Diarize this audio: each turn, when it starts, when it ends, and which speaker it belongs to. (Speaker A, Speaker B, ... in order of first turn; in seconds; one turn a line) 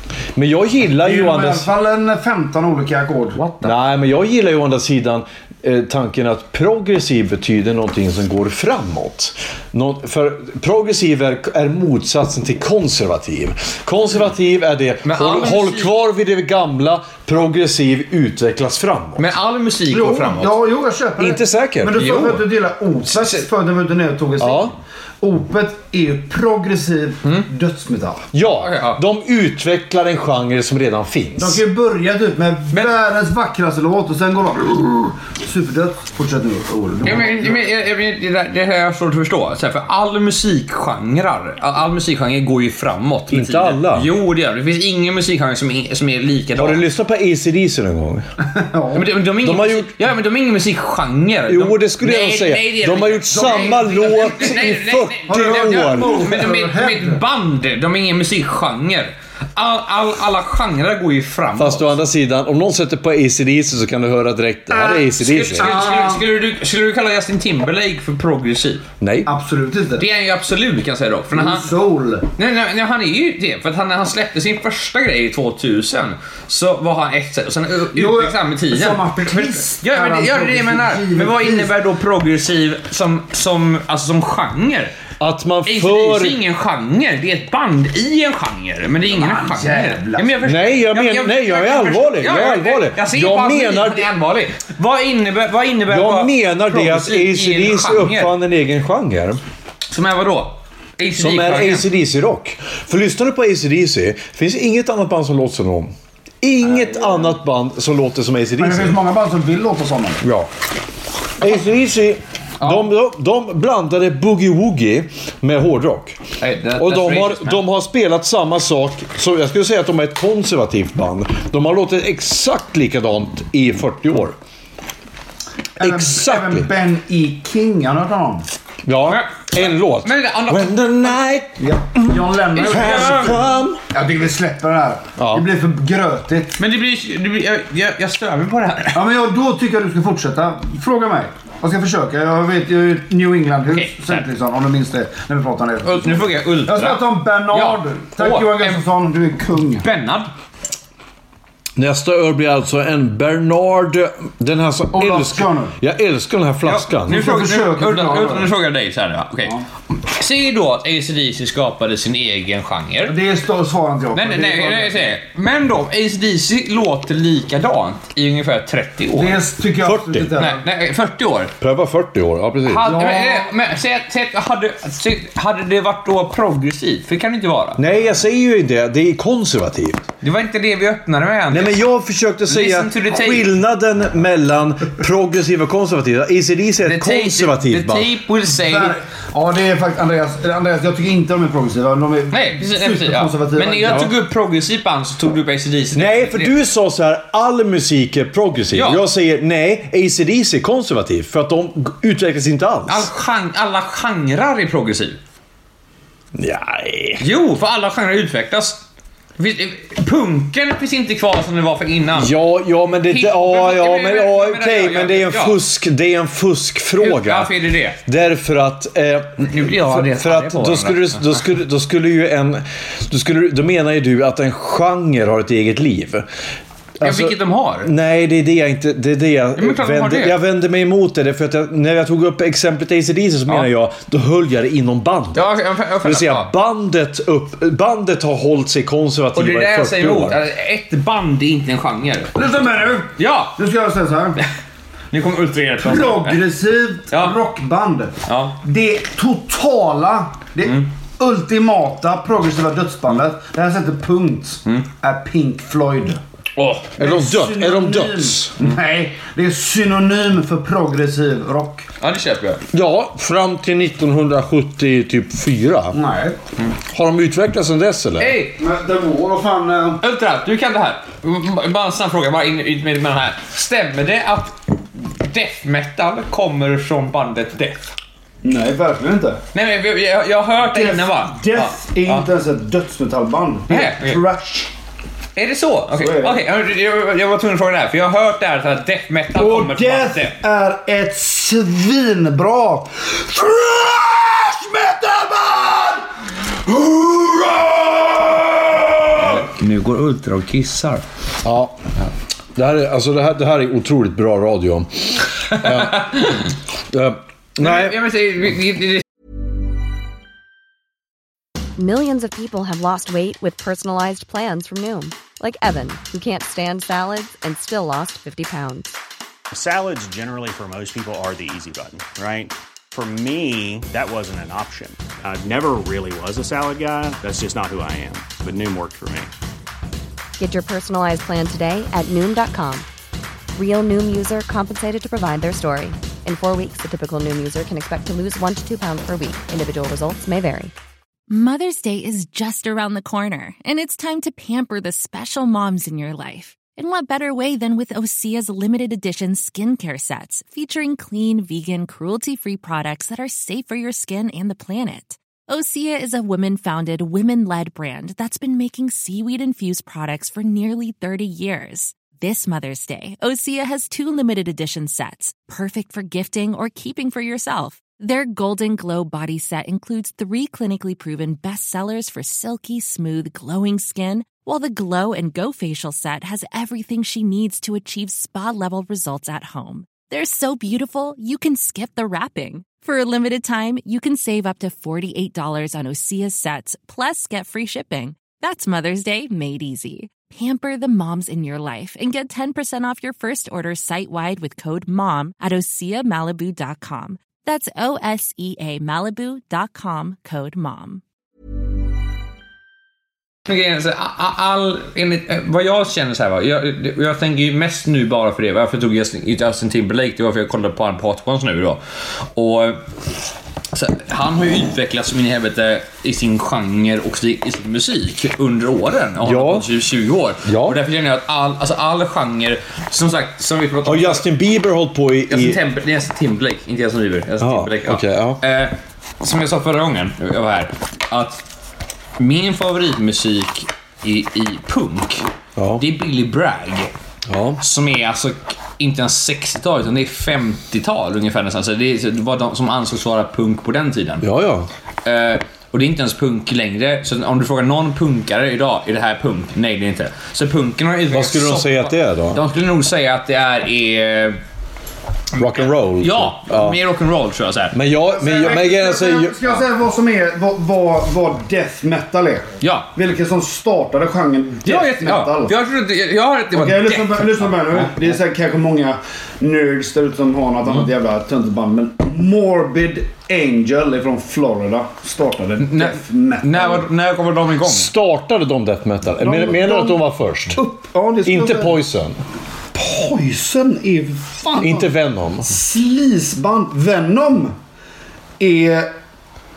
Speaker A: 0.3-1.7
Speaker B: 1.0-3.4
Speaker C: 3.4-3.8
Speaker A: 3.6-19.3
Speaker C: 15.1-15.9
Speaker C: 19.2-20.6
Speaker B: 19.9-28.2
Speaker A: 21.2-22.4
Speaker C: 21.9-22.4
Speaker C: 23.1-23.5
Speaker A: 24.4-24.7
Speaker A: 28.3-31.6
Speaker C: 28.6-29.0
Speaker B: 31.4-37.6
Speaker C: 37.0-46.8
Speaker A: 43.3-44.1
Speaker A: 46.6-48.2
Speaker B: 48.5-49.1
Speaker C: 48.9-62.0
Speaker A: 49.4-49.9
Speaker A: 51.5-56.3
Speaker B: 53.3-54.5
Speaker B: 55.3-57.2
Speaker A: 61.6-65.8
Speaker B: 64.7-65.0
Speaker C: 65.1-68.8
Speaker B: 65.6-66.2
Speaker A: 69.0-69.3
Speaker B: 69.2-70.1
Speaker C: 70.0-71.7
Speaker B: 71.3-72.3
Speaker C: 72.4-84.9
Speaker B: 77.9-81.7
Speaker A: 85.2-86.4
Speaker C: 85.7-98.3
Speaker B: 89.1-90.4
Speaker A: 90.4-94.1
Speaker A: 95.9-99.4
Speaker C: 99.9-101.9
Speaker A: 101.2-109.0
Speaker B: 106.8-107.2
Speaker B: 108.6-110.2
Speaker A: 110.2-110.5
Speaker A: 111.4-116.2
Speaker C: 112.6-112.9
Speaker C: 116.4-117.6
Speaker A: 116.8-124.4
Speaker A: 125.8-126.7
Speaker B: 125.8-128.5
Speaker A: 128.8-133.8
Speaker C: 129.1-131.2
Speaker B: 131.6-133.4
Speaker C: 132.5-133.4
Speaker B: 133.9-136.6
Speaker A: 135.2-135.5
Speaker C: 136.6-139.1
Speaker B: 138.9-149.9
Speaker C: 143.7-144.3
Speaker C: 145.8-148.8
Speaker C: 149.8-150.3
Speaker A: 151.8-157.2
Speaker B: 154.9-155.8
Speaker C: 156.6-163.2
Speaker B: 157.1-158.5
Speaker B: 163.1-165.0
Speaker C: 164.2-169.4
Speaker B: 169.2-170.6
Speaker A: 169.8-170.3
Speaker C: 170.4-171.5
Speaker A: 171.6-172.9
Speaker C: 172.7-177.8
Speaker B: 172.8-173.5
Speaker A: 177.8-180.1
Speaker C: 180.2-181.8
Speaker A: 181.5-188.1
Speaker C: 182.5-183.5
Speaker C: 186.8-189.0
Speaker B: 188.5-194.1
Speaker C: 192.3-196.5
Speaker A: 195.9-203.1
Speaker C: 198.7-199.0
Speaker C: 202.9-205.2
Speaker A: 206.4-207.3
Speaker C: 207.2-208.8
Speaker C: 209.4-212.3
Speaker A: 212.1-217.5
Speaker C: 213.1-215.6
Speaker C: 217.0-218.0
Speaker A: 218.1-226.3
Speaker C: 219.4-221.4
Speaker A: 227.0-240.4
Speaker C: 227.0-227.9
Speaker C: 229.6-230.4
Speaker C: 235.3-236.5
Speaker C: 239.3-242.4
Speaker B: 242.4-244.4
Speaker C: 243.2-243.6
Speaker C: 245.1-246.4
Speaker B: 245.8-256.2
Speaker C: 248.3-248.6
Speaker C: 256.6-257.0
Speaker A: 257.0-258.5
Speaker B: 257.0-261.9
Speaker C: 262.0-262.6
Speaker A: 262.7-266.0
Speaker B: 265.9-266.4
Speaker A: 266.9-268.4
Speaker C: 268.2-268.6
Speaker B: 268.6-270.0
Speaker C: 270.0-277.9
Speaker B: 278.4-279.4
Speaker C: 279.5-282.3
Speaker B: 280.6-284.7
Speaker C: 283.7-284.2
Speaker C: 285.4-290.4
Speaker B: 286.0-286.4
Speaker B: 289.3-296.1
Speaker B: 296.6-299.1
Speaker C: 299.2-301.0
Speaker A: 301.4-301.8
Speaker A: 302.6-306.4
Speaker C: 305.6-306.4
Speaker A: 306.9-308.1
Speaker C: 307.6-309.0
Speaker D: 311.8-319.0
Speaker E: 319.5-329.3
Speaker D: 330.4-332.9
Speaker D: 333.6-340.7
Speaker F: 341.3-401.0
Speaker C: 403.5-411.8
Speaker C: 412.3-412.8
Speaker C: 413.7-424.3
Speaker A: 419.2-419.7
Speaker A: 420.4-420.8
Speaker A: 423.9-425.6
Speaker C: 425.3-431.4
Speaker A: 427.4-428.4
Speaker C: 432.2-435.2
Speaker A: 435.6-435.9
Speaker C: 435.8-436.9
Speaker A: 437.3-437.6
Speaker C: 437.6-444.3
Speaker A: 444.2-444.7
Speaker C: 445.1-454.4
Speaker A: 451.1-452.4
Speaker C: 455.3-457.8
Speaker A: 455.4-456.8
Speaker A: 457.7-459.4
Speaker B: 458.1-465.5
Speaker C: 462.6-462.9
Speaker C: 464.6-467.9
Speaker B: 466.5-476.9
Speaker C: 475.6-477.9
Speaker A: 477.6-480.6
Speaker B: 479.2-480.0
Speaker B: 480.5-481.8
Speaker A: 481.2-482.2
Speaker B: 482.7-484.9
Speaker A: 484.6-485.5
Speaker B: 485.5-487.6
Speaker B: 488.4-488.9